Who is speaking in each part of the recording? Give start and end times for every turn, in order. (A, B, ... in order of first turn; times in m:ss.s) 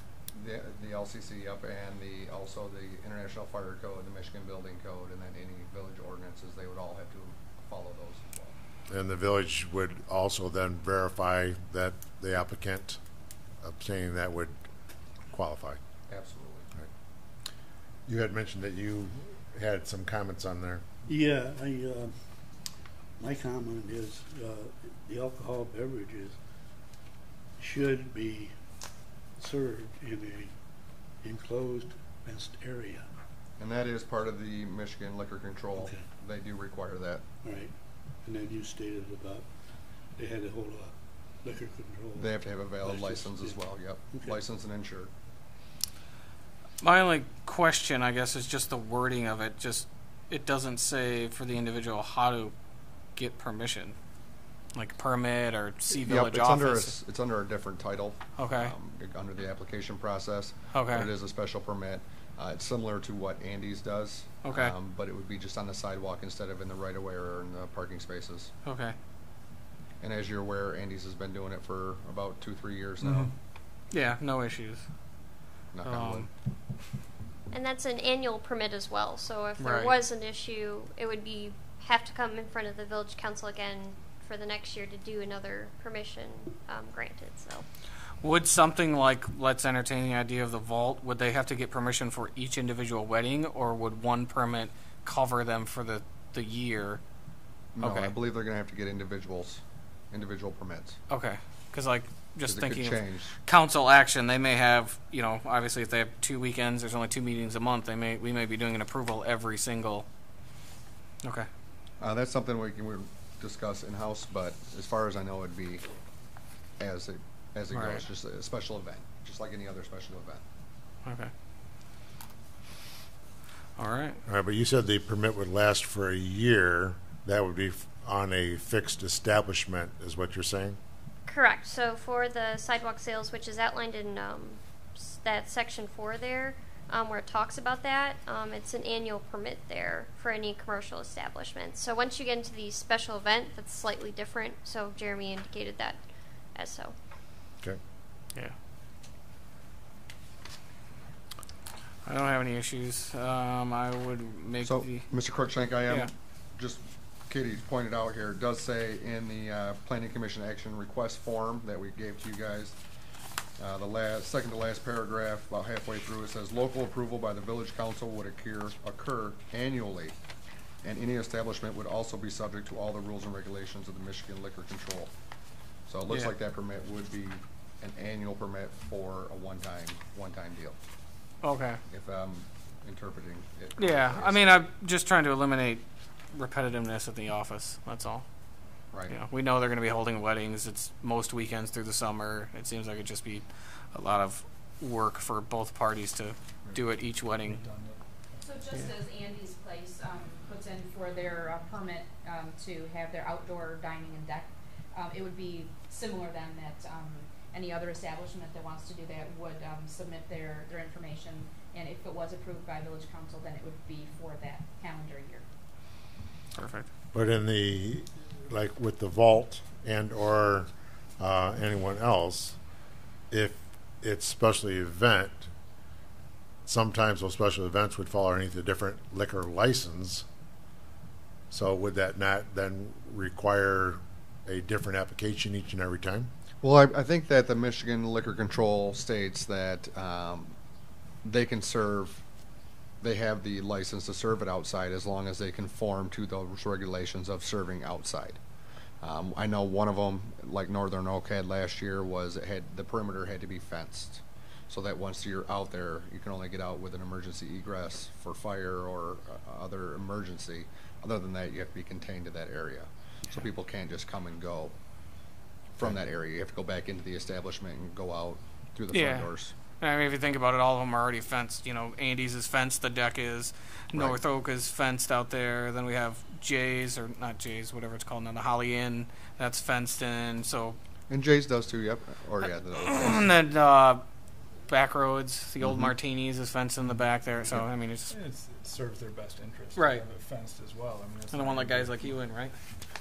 0:00.3-0:08.5 A
0:08.9-0:13.0 B
0:13.6-0:14.6 B
0:15.3-0:15.8 B
0:16.1-0:16.7 A
0:18.0-0:20.8 B
0:21.1-0:22.1 C
0:23.2-0:26.4 C
0:27.6-0:28.5 C
0:29.4-0:30.5 C
0:31.2-0:33.1 C
0:33.6-0:37.2 A
0:35.7-0:36.0 C
0:37.4-0:39.5 C
0:40.2-0:44.4 C
0:42.2-0:45.1 A
0:46.8-0:52.5 D
0:53.2-0:54.0 D
0:54.7-0:57.0 D
0:55.9-1:08.5 A
0:58.4-0:58.7 D
1:00.7-1:01.1 D
1:04.4-1:04.7 D
1:08.6-1:08.9 D
1:10.0-1:13.3 A
1:13.0-1:13.3 E
1:13.9-1:14.8 D
1:15.7-1:16.3 A
1:15.8-1:16.3 D
1:17.5-1:27.6 F
1:19.6-1:19.9 D
1:28.2-1:37.0 D
1:37.8-1:39.6 A
1:37.8-1:38.1 D
1:40.1-1:41.0 A
1:41.1-1:50.1 D
1:42.4-1:43.4 A
1:51.2-1:51.5 D
1:52.0-1:55.8 A
1:56.8-2:00.4 A
1:57.7-1:58.0 D
2:01.0-2:01.3 D
2:03.8-2:04.2 D
2:04.2-2:10.8 B
2:11.3-2:26.0 F
2:26.5-2:26.9 F
2:32.0-2:35.1 D
2:34.6-2:42.8 A
2:43.6-2:50.1 A
2:50.8-2:55.1 A
2:55.9-3:00.8 A
3:01.4-3:01.8 D
3:01.9-3:04.6 A
3:03.8-3:08.2 D
3:08.9-3:09.2 A
3:09.1-3:17.6 D
3:17.1-3:18.5 E
3:18.4-3:35.4 G
3:36.5-3:36.9 D
3:37.1-3:42.6 B
3:43.3-3:45.5 B
3:46.6-3:50.2 B
3:51.5-3:56.3 B
3:56.6-4:00.5 A
4:01.2-4:02.2 A
4:03.0-4:08.4 A
4:09.0-4:24.7 A
4:25.7-4:29.5 A
4:28.9-4:40.8 D
4:33.9-4:34.2 A
4:41.1-4:43.3 A
4:42.8-4:44.0 D
4:44.7-4:48.1 D
4:45.6-4:45.9 A
4:46.9-4:52.3 E
4:49.7-4:50.0 D
4:51.3-4:52.5 D